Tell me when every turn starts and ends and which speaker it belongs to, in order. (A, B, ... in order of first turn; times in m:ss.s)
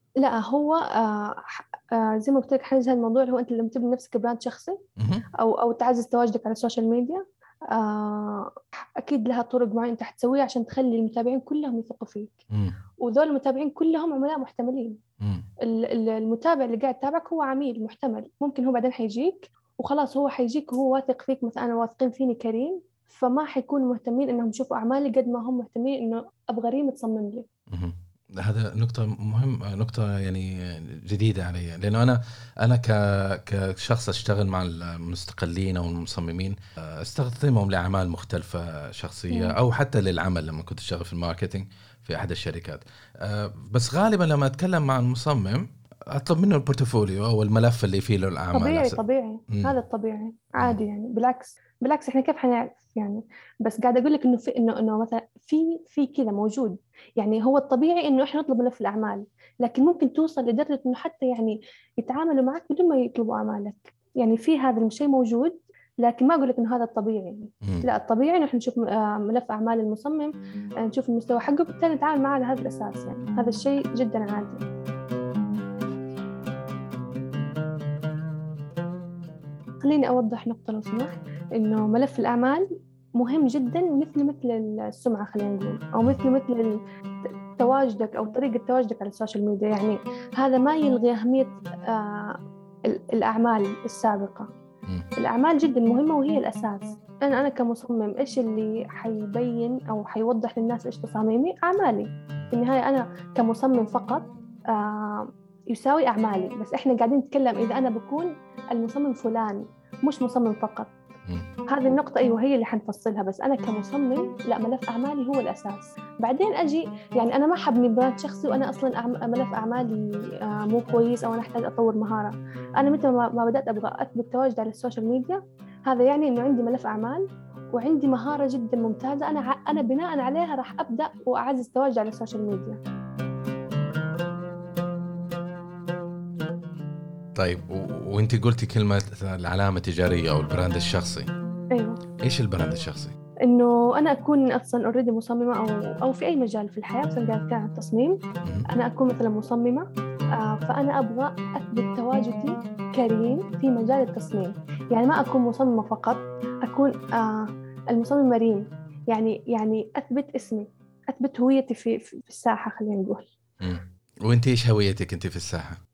0:00.2-0:04.8 A
0:05.0-0:05.2 B
0:05.4-0:12.3 A
0:12.5-0:12.8 B
0:13.0-0:15.0 A
0:15.6-0:27.4 A
0:27.7-0:49.0 B
0:39.3-0:39.6 A
0:48.5-1:14.6 A
1:19.8-1:22.7 A
1:23.2-1:34.5 A
1:35.2-1:50.9 A
1:51.7-2:12.8 A
2:17.4-2:21.3 B
2:21.7-2:22.0 A
2:22.2-2:23.2 B
2:23.4-2:28.2 A
2:28.7-2:43.2 A
2:43.6-2:45.8 B